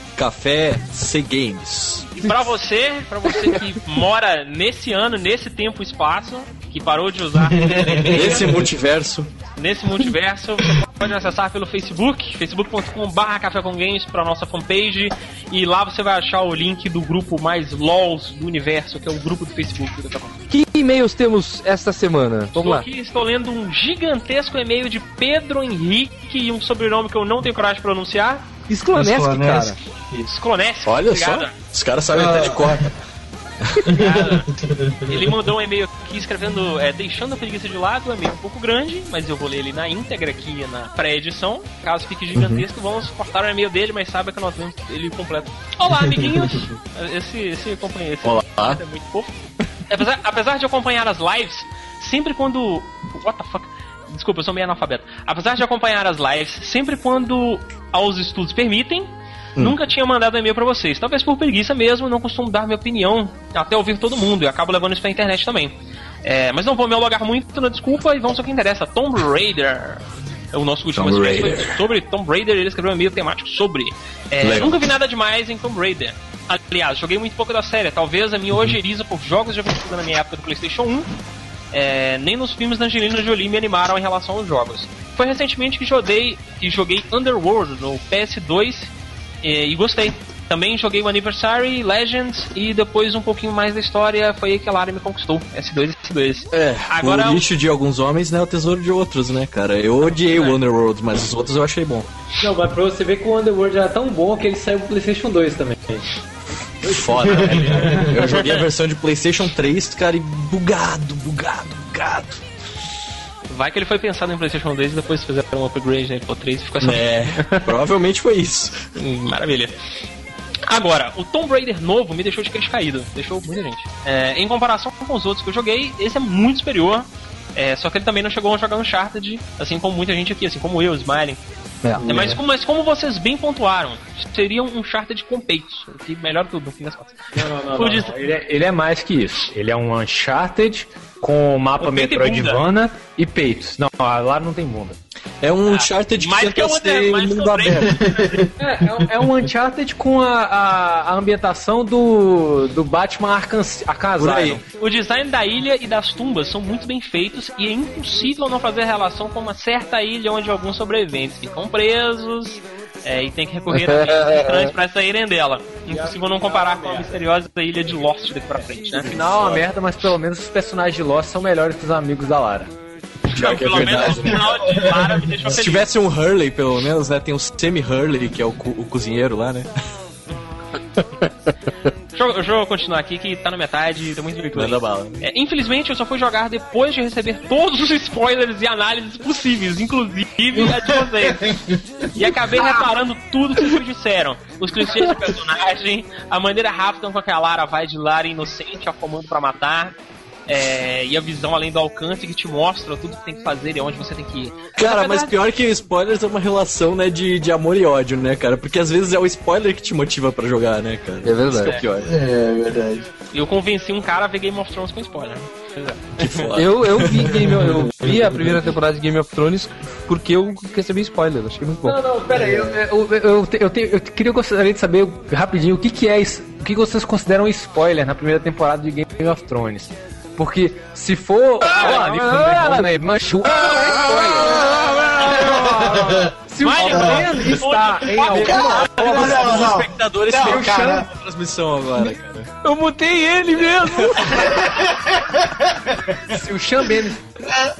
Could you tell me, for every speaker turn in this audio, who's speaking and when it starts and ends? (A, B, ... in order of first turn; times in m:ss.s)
0:00.2-0:02.1 A
0:02.2-0:08.6 B
0:08.1-0:09.3 A
0:09.6-0:20.4 B
0:20.5-0:22.8 C
0:22.5-0:28.5 B
0:28.7-0:29.8 C
0:29.2-0:29.6 D
0:30.2-0:31.6 B
0:30.8-0:32.9 A
0:32.3-0:32.7 D
0:33.6-0:34.0 A
0:33.9-0:34.5 B
0:34.0-0:34.4 D
0:35.0-1:21.1 B
0:42.3-0:42.6 A
0:48.2-0:48.8 A
1:10.9-1:11.7 A
1:14.4-1:14.8 A
1:21.7-1:37.4 B
1:36.5-1:42.1 A
1:40.2-1:40.6 B
1:42.4-1:46.0 E
1:46.8-1:52.4 A
1:47.0-1:48.4 E
1:53.5-1:57.4 B
1:56.8-1:58.8 A
1:59.0-1:59.8 B
2:00.7-2:11.4 B
2:11.8-2:12.4 C
2:12.0-2:17.2 B
2:17.3-2:25.0 E
2:17.7-2:18.2 B
2:21.8-2:22.6 B
2:25.4-2:28.0 A
2:25.7-2:28.4 B
2:28.6-2:34.6 E
2:34.2-2:34.6 A
2:34.8-2:49.2 B
2:43.7-2:44.7 C
2:45.9-2:47.0 E
2:48.9-2:52.7 E
2:53.3-2:54.8 A
2:53.3-2:55.9 B
2:55.5-2:59.7 A
3:02.1-3:11.5 B
3:04.5-3:05.1 A
3:12.1-3:20.0 B
3:20.5-3:25.3 B
3:24.8-3:32.2 A
3:31.2-3:31.8 C
3:32.2-3:33.0 D
3:33.3-3:36.0 B
3:36.2-3:37.8 A
3:36.5-3:42.0 C
3:41.8-3:59.7 E
3:51.6-3:56.0 C
3:56.6-3:58.6 B
3:58.2-4:02.5 A
3:59.5-3:59.9 D
4:00.3-4:01.0 E
4:00.4-4:00.9 D
4:02.6-4:04.5 C
4:06.3-4:07.2 E